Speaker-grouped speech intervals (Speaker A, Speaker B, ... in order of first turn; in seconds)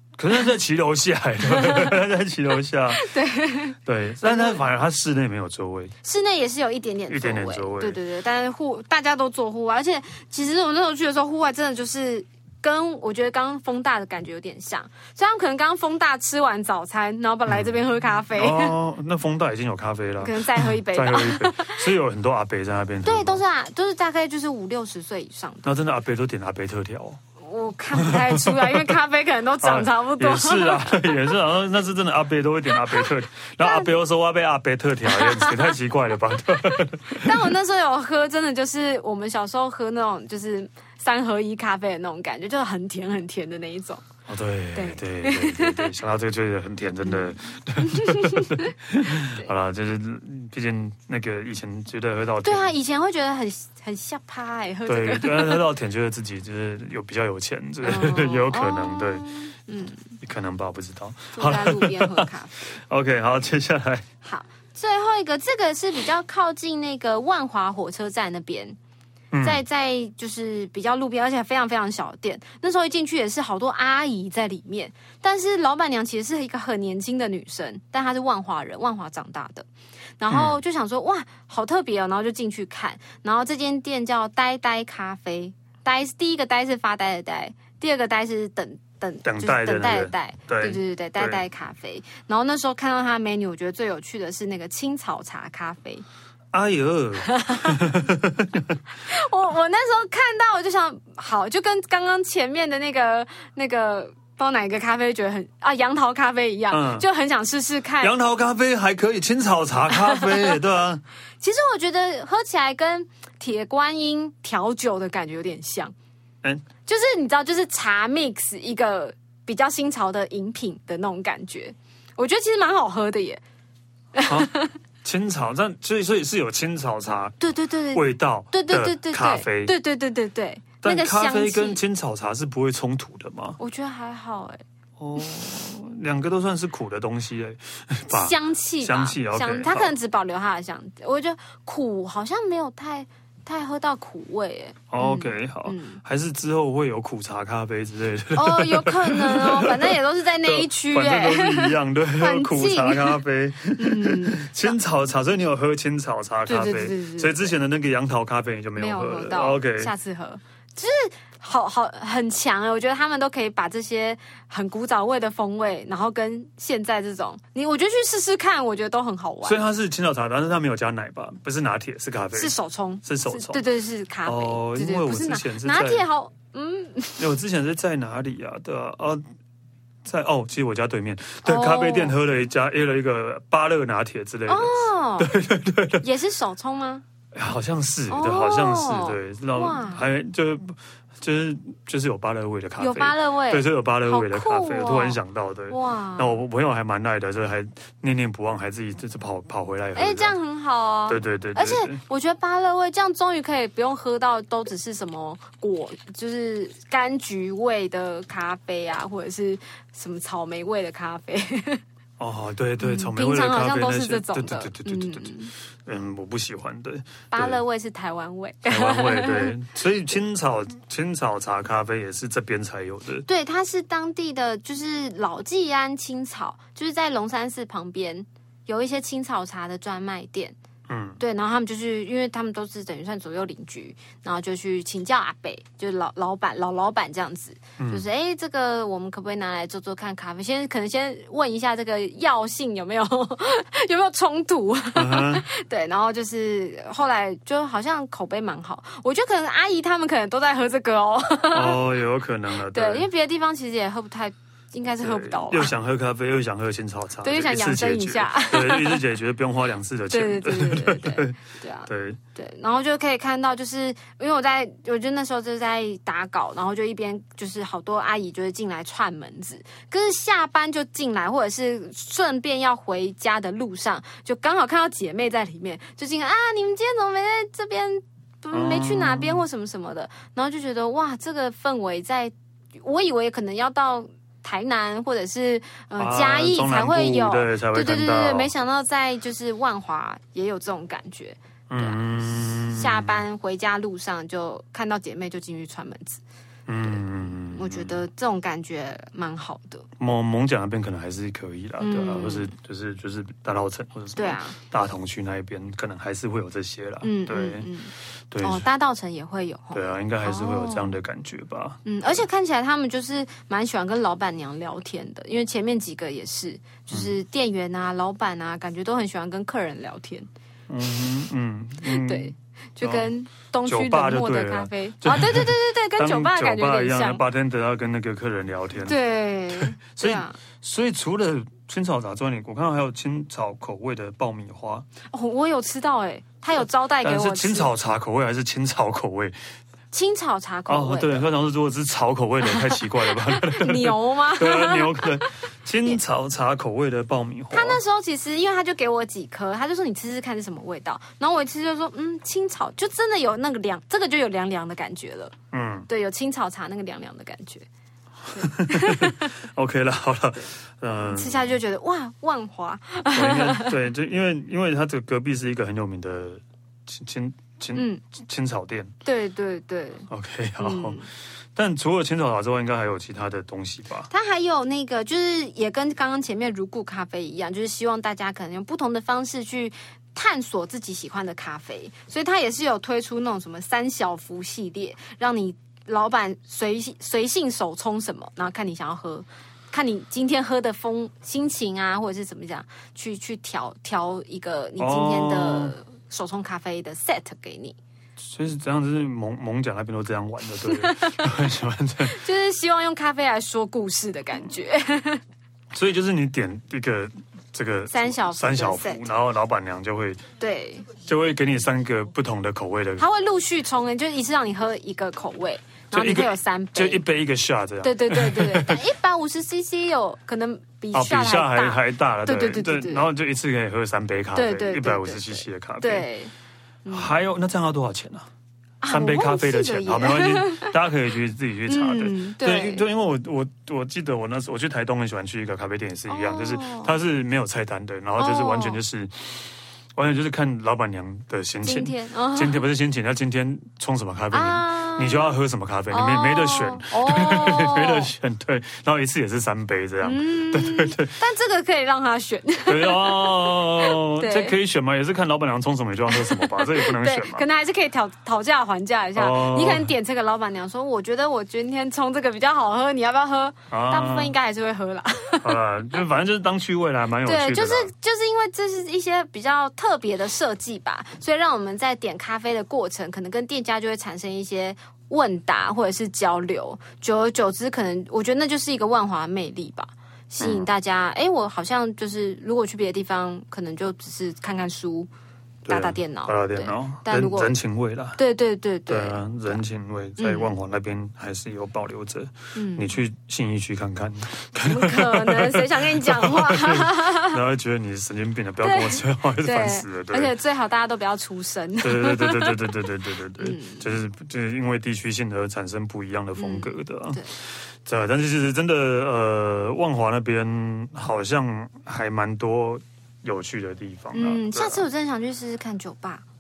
Speaker A: 0.2-3.1, 3.9-6.0, 7.1-8.0, 17.5-17.7, 18.3-23.4, 25.6-27.2, 28.0-28.9, 29.6-37.4, 44.3-52.7, 54.9-59.3, 60.2-64.1, 69.3-69.6, 80.3-80.6, 89.2-91.4, 96.5-98.8, 106.7-107.1, 108.0-111.0, 124.2-127.4, 127.9-129.7, 130.8-133.6, 135.0-139.9, 144.9-159.9, 169.4-173.6, 174.2-176.0, 177.2-179.2, 180.0-186.0, 187.3-200.4, 201.1-202.0, 212.2-217.6, 218.7-223.3, 230.9-231.2, 237.8-238.0, 244.9-245.4, 251.5-253.1, 255.0-261.4, 261.9-262.2, 278.5-279.4, 286.0-288.5, 291.7-293.2, 296.7-298.0, 300.0-307.7, 308.3-308.7, 309.7-311.9, 320.7-323.1, 323.7-329.0, 329.5-334.9, 337.0-339.4, 340.7-347.8, 355.5-355.9, 358.3-361.6, 363.1-368.9, 370.1-371.0, 371.6-374.1, 394.8-395.8, 398.2-402.2, 405.7-410.2, 411.0-413.1, 415.9-418.8, 420.9-426.1, 426.9-428.3, 428.9-451.1, 452.7-457.4, 459.2-459.9, 463.7-464.3, 465.4-467.9, 480.4-480.7, 485.7-488.2, 488.9-500.3, 501.8-514.9
Speaker B: 1.4-2.0, 2.9-4.6, 6.0-18.8, 20.2-21.9, 23.1-25.7, 27.4-31.3, 33.6-34.0, 35.1-35.8, 36.6-44.0, 44.8-45.9, 47.0-49.5, 52.4-55.7, 57.8-60.1, 61.3-62.8, 64.2-68.8, 69.4-79.7, 80.2-96.0, 97.2-97.8, 99.0-108.1, 109.9-110.6, 111.4-115.9, 116.9-123.4, 124.1-124.7, 127.4-131.8, 133.6-134.6, 138.1-146.0, 148.3-153.2, 153.8-154.8, 156.5-157.6, 158.8-169.6, 172.3-177.3, 181.4-182.2, 184.5-185.4, 186.0-187.0, 188.1-190.1, 192.8-196.4, 200.0-211.8, 212.8-215.5, 217.3-219.6, 223.3-230.6, 231.2-251.9, 252.6-255.7, 257.2-259.0, 260.1-296.2, 296.9-299.9, 301.8-302.5, 304.2-304.6, 307.0-311.0, 311.9-320.3, 321.9-327.2, 328.8-330.4, 335.1-337.7, 339.9-341.3, 342.4-345.2, 347.5-355.3, 355.9-357.7, 358.3-359.4, 361.1-363.8, 367.7-368.0, 369.1-370.1, 370.6-371.1, 374.1-397.8, 400.7-401.3, 402.0-405.2, 407.9-409.2, 410.4-410.9, 413.0-417.0, 417.8-423.1, 424.4-426.3, 426.9-427.1, 428.8-430.8, 431.7-432.9, 436.1-437.0, 438.2-438.8, 441.6-442.6, 444.3-445.4, 445.9-448.1, 450.0-454.6, 456.1-465.6, 467.2-485.1, 485.6-487.6, 488.2-489.6, 490.2-490.6, 492.6-493.0, 494.6-497.4, 498.6-502.8, 503.4-503.9, 506.4-507.3, 514.1-516.2